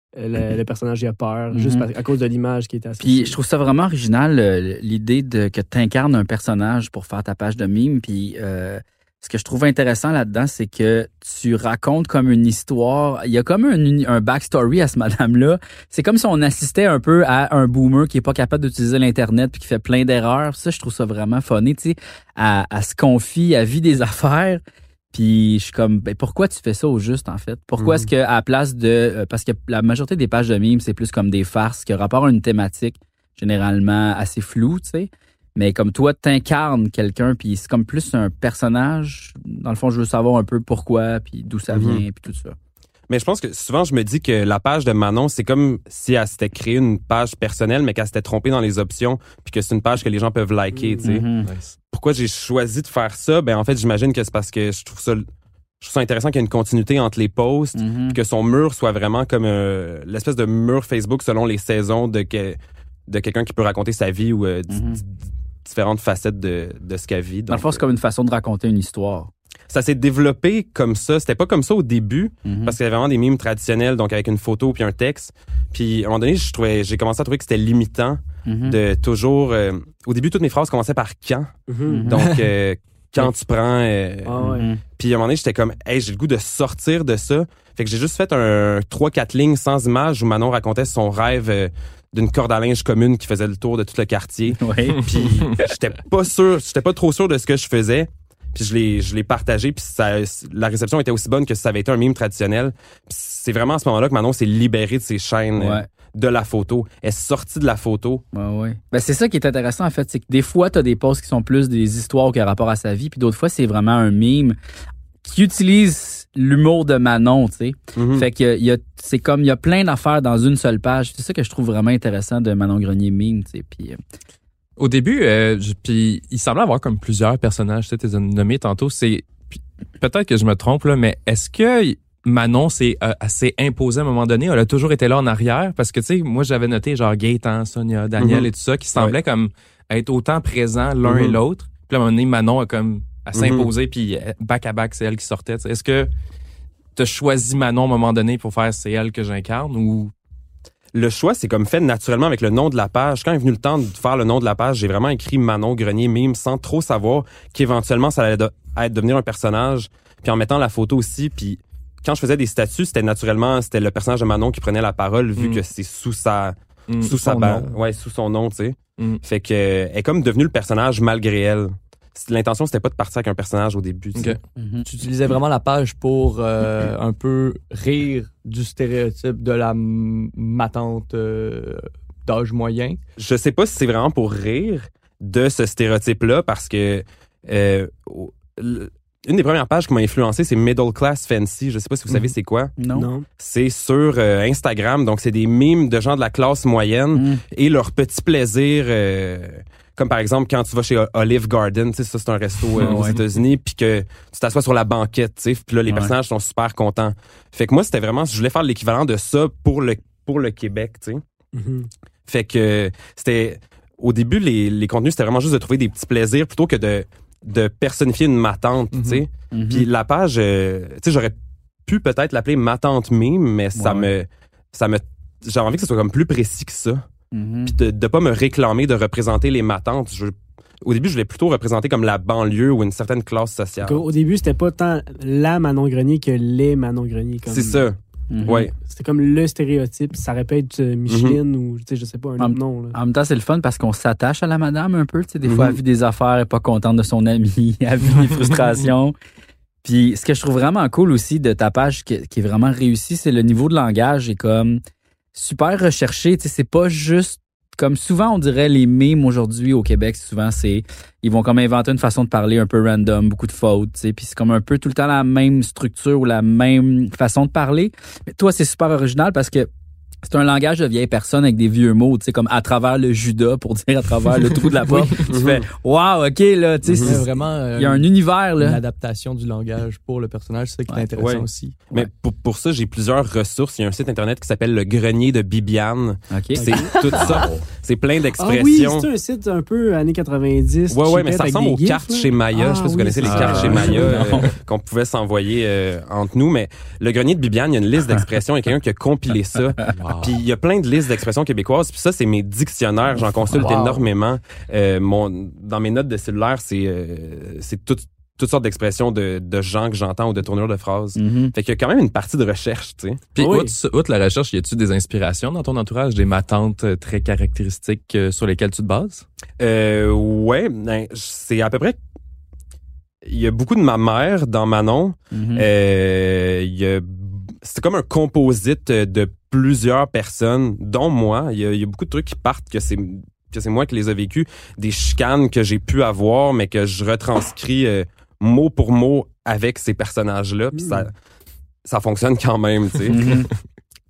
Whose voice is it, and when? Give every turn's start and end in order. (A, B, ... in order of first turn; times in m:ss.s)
0:00.2-0:03.4 A
0:01.5-0:01.8 B
0:03.0-0:24.6 B
0:25.1-0:42.5 B
0:27.8-0:28.1 C
0:41.7-0:42.0 C
0:43.1-0:51.3 C
0:50.7-0:51.1 A
0:51.0-0:51.5 B
0:51.4-0:51.8 D
0:51.9-0:55.2 C
0:55.8-1:05.1 C
0:57.8-0:58.2 B
1:04.7-1:05.0 B
1:05.6-1:07.8 C
1:07.5-1:09.3 B
1:09.7-1:48.2 C
1:12.4-1:12.8 B
1:18.4-1:18.8 B
1:21.7-1:22.1 A
1:21.9-1:22.2 B
1:24.2-1:24.7 A
1:24.5-1:24.8 B
1:34.6-1:35.1 B
1:45.6-1:45.9 B
1:48.3-1:54.6 B
1:55.2-2:04.0 B
1:58.0-1:58.3 C
2:04.8-2:26.1 D
2:18.2-2:19.2 C
2:21.0-2:21.4 C
2:23.3-2:23.7 C
2:27.0-2:30.1 D
2:30.9-2:54.4 C
2:45.4-2:45.6 D
2:46.9-2:47.6 D
2:54.6-2:54.8 B
2:54.8-3:03.0 E
3:03.2-3:12.7 C
3:12.8-3:13.1 B
3:12.9-3:13.2 A
3:13.4-3:31.2 C
3:17.1-3:17.4 B
3:22.8-3:23.2 B
3:31.5-3:31.9 A
3:32.3-3:41.3 C
3:38.9-3:39.2 E
3:39.5-3:39.9 B
3:41.8-3:47.0 C
3:43.8-3:44.1 B
3:47.3-3:47.7 B
3:47.6-3:54.1 C
3:53.8-3:57.8 A
3:57.5-3:58.7 C
3:58.3-3:58.6 B
3:58.4-4:03.0 A
4:01.1-4:01.4 C
4:02.4-4:09.1 B
4:05.4-4:05.8 C
4:09.8-4:14.8 B
4:15.3-4:29.7 B
4:30.2-4:38.8 B
4:35.2-4:35.7 C
4:36.9-4:37.2 C
4:37.0-4:38.1 E
4:38.6-4:41.8 E
4:41.2-4:49.1 C
4:46.3-4:46.7 B
4:46.6-4:46.9 A
4:47.1-4:47.5 E
4:48.4-4:54.1 A
4:50.9-5:13.2 C
4:53.2-4:54.5 D
4:54.1-4:54.4 B
4:59.9-5:00.4 D
5:03.1-5:03.8 B
5:03.6-5:03.8 E
5:11.1-5:11.5 B
5:13.3-5:19.2 D
5:13.4-5:13.7 A
5:19.6-5:22.0 C
5:23.2-5:41.1 C
5:25.3-5:25.6 B
5:40.7-5:41.1 A
5:41.8-5:43.4 C
5:43.1-5:43.5 B